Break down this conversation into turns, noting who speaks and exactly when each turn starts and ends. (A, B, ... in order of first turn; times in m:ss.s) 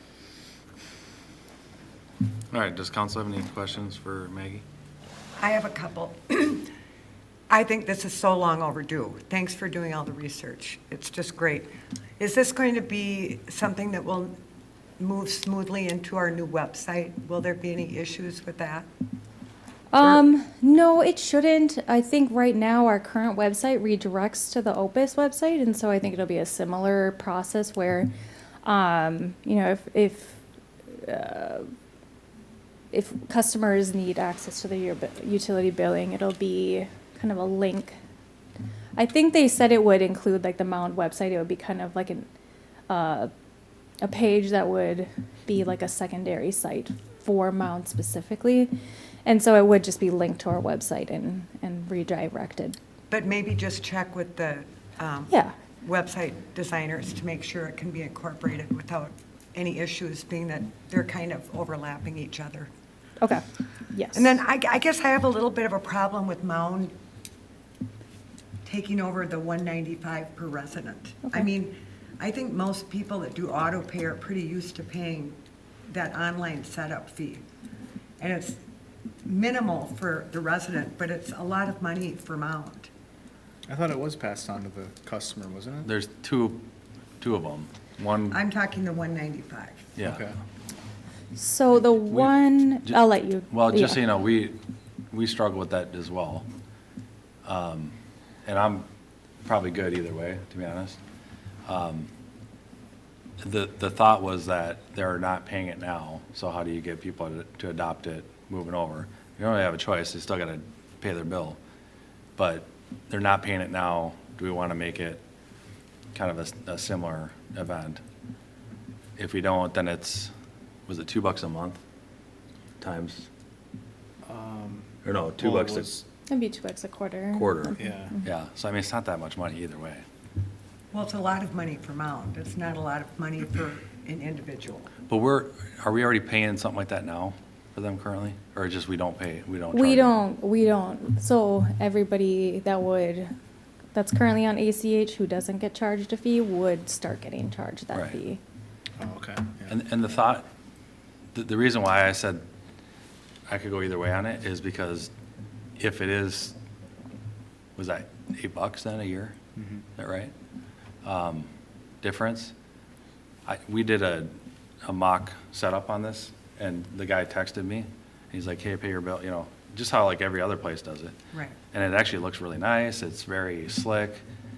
0:02.5-0:04.6 A
0:05.4-0:06.7 B
0:07.5-0:14.3 B
0:15.0-0:18.9 B
0:19.9-0:28.1 C
0:20.0-0:20.2 B
0:28.6-0:31.7 C
0:32.9-0:38.0 C
0:39.0-0:42.3 C
0:42.9-0:43.3 C
0:44.0-0:48.7 C
0:49.3-0:52.8 C
0:53.1-1:02.7 B
1:03.2-1:04.4 C
1:04.1-1:06.9 B
1:08.6-1:15.4 B
1:15.9-1:17.4 B
1:18.2-1:18.6 B
1:19.3-1:22.9 B
1:23.7-1:25.9 D
1:25.8-1:26.6 A
1:27.2-1:28.4 A
1:28.3-1:29.9 B
1:30.0-1:30.2 A
1:30.0-1:30.4 D
1:31.4-1:34.0 C
1:33.5-1:34.6 A
1:35.1-1:36.5 A
1:37.4-1:38.0 A
1:38.5-1:38.8 A
1:39.4-1:41.0 A
1:41.7-1:42.1 A
1:43.4-1:51.6 A
1:52.4-1:55.2 A
1:56.1-1:58.0 A
1:59.2-2:00.3 A
2:00.9-2:01.8 A
2:02.8-2:03.3 A
2:04.2-2:06.0 D
2:05.0-2:05.9 A
2:06.3-2:07.8 C
2:07.3-2:10.0 A
2:07.8-2:08.2 D
2:10.9-2:14.9 B
2:15.1-2:20.2 A
2:19.7-2:23.3 C
2:23.9-2:28.4 C
2:29.0-2:29.8 D
2:29.7-2:30.4 A
2:31.3-2:32.4 A
2:33.5-2:35.1 A
2:35.8-2:36.6 A
2:37.8-2:39.4 A
2:39.6-2:39.8 D
2:40.0-2:40.3 A
2:41.0-2:41.5 A
2:42.0-2:42.5 A
2:43.5-2:44.3 A
2:44.8-2:51.2 A
2:51.7-2:54.2 A